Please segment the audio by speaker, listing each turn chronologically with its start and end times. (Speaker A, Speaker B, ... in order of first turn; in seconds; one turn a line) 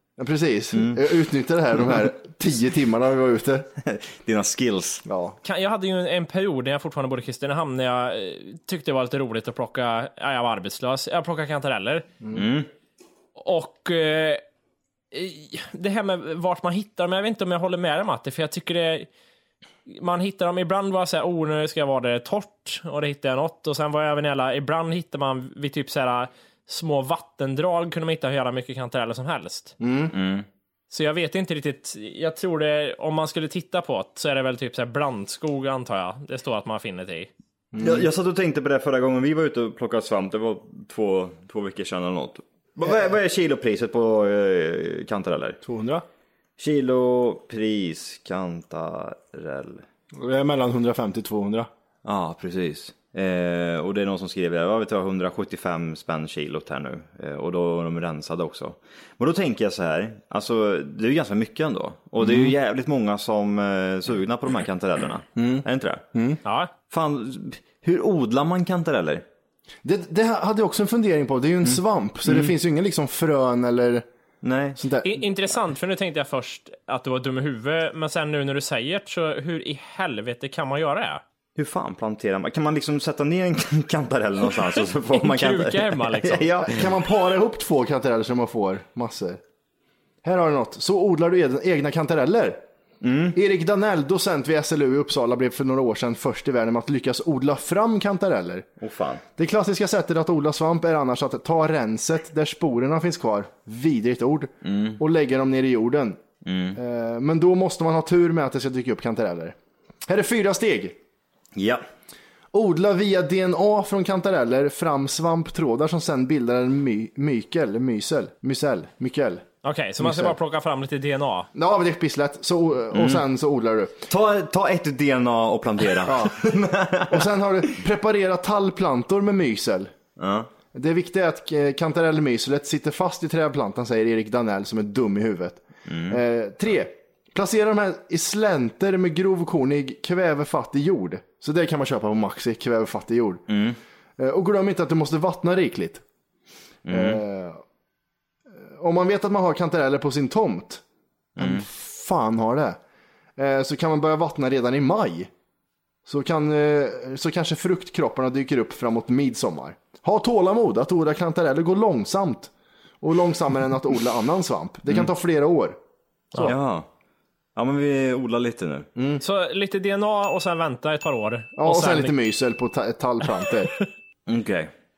Speaker A: 0.2-3.7
Speaker B: 0.7-1.0
Speaker B: 3.8-5.0
Speaker A: 5.0-5.4
Speaker C: 5.4-12.1
Speaker B: 12.3-12.7
Speaker C: 13.3-14.4
Speaker C: 15.1-19.1
Speaker C: 19.9-29.7
Speaker A: 29.8-30.1
Speaker B: 30.1-30.4
Speaker C: 30.9-37.3
Speaker A: 37.7-38.1
Speaker B: 37.8-45.6
Speaker A: 45.6-46.0
Speaker B: 46.6-49.8
Speaker A: 50.1-51.7
Speaker B: 52.0-66.0
Speaker A: 62.2-62.5
Speaker A: 65.3-66.4
Speaker C: 66.4-66.7
Speaker B: 66.9-69.2
Speaker A: 69.8-74.0
Speaker B: 71.6-72.5
Speaker B: 74.4-74.8
Speaker A: 74.8-75.2
Speaker C: 75.0-81.2
Speaker B: 81.5-86.8
Speaker C: 84.7-86.5
Speaker A: 86.6-89.4
Speaker A: 90.2-92.6
Speaker B: 93.0-93.3
Speaker A: 93.3-98.7
Speaker B: 98.8-99.2
Speaker A: 99.4-106.2
Speaker B: 104.6-105.0
Speaker B: 106.4-106.8
Speaker A: 106.8-111.0
Speaker B: 111.5-111.8
Speaker A: 112.5-119.4
Speaker C: 119.6-121.5
Speaker A: 120.0-120.3
Speaker A: 121.5-124.0
Speaker B: 122.9-123.2
Speaker B: 124.1-127.3
Speaker A: 126.0-126.5
Speaker A: 127.1-129.9
Speaker B: 130.2-130.5
Speaker A: 130.7-143.4
Speaker B: 135.9-136.2
Speaker B: 143.5-143.8
Speaker A: 144.2-146.0
Speaker B: 146.8-147.2
Speaker A: 146.9-147.6
Speaker A: 148.5-150.8
Speaker B: 151.4-151.6
Speaker A: 151.4-152.8
Speaker A: 153.4-155.3
Speaker A: 156.0-165.8
Speaker B: 166.4-166.9
Speaker B: 167.5-168.9
Speaker A: 168.9-169.2
Speaker C: 169.2-172.1
Speaker A: 171.6-173.7
Speaker B: 174.3-174.7